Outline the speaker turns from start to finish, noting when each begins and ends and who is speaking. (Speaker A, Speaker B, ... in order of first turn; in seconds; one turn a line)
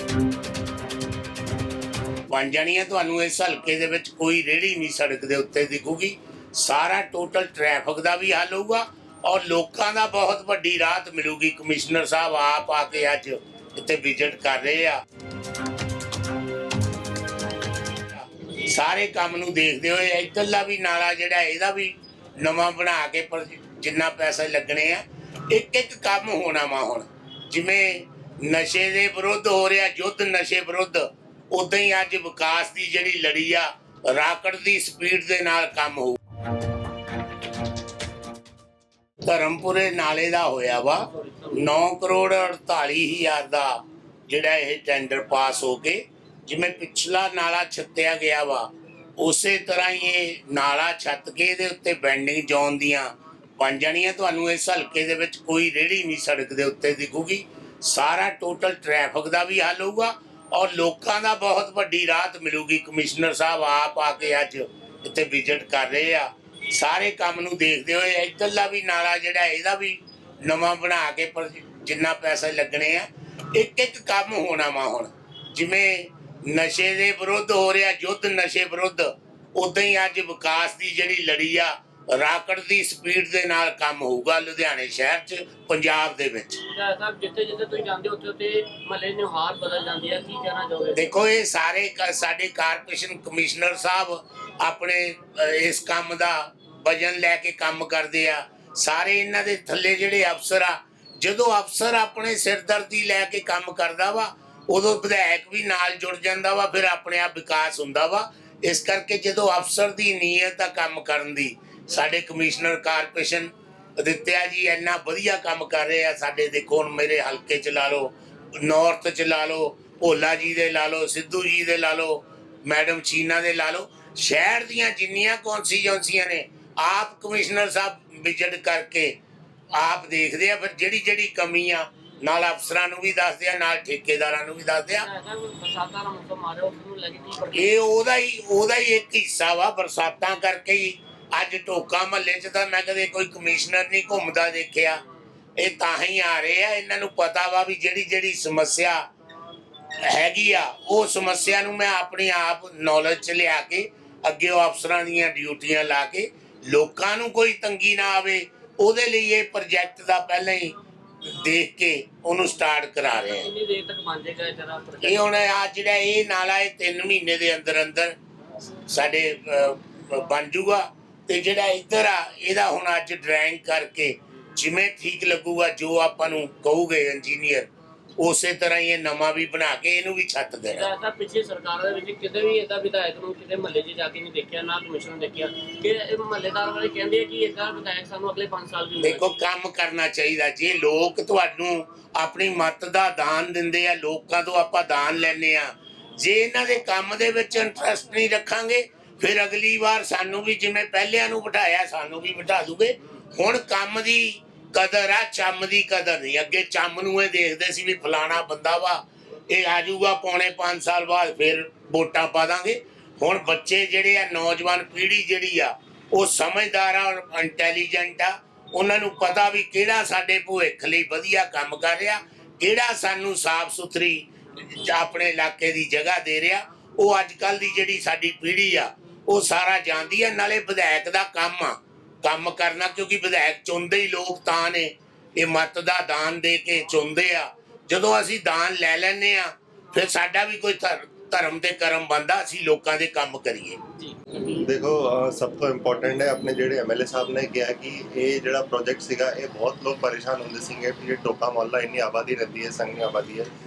Speaker A: 2.3-15.0
Speaker A: 18.1-36.2
Speaker A: 39.2-41.0
Speaker B: 41.0-41.7
Speaker A: 41.5-43.7
Speaker A: 44.3-86.6
Speaker B: 86.7-91.1
Speaker A: 91.0-129.1
Speaker A: 129.7-135.1
Speaker B: 134.9-137.8
Speaker A: 137.5-145.0
Speaker A: 145.6-149.0
Speaker A: 150.1-163.5
Speaker B: 163.1-165.3
Speaker A: 165.0-168.1
Speaker A: 168.9-177.7
Speaker A: 178.2-180.9
Speaker B: 180.7-189.3
Speaker A: 189.0-243.8
Speaker B: 244.0-244.3
Speaker C: 244.4-253.5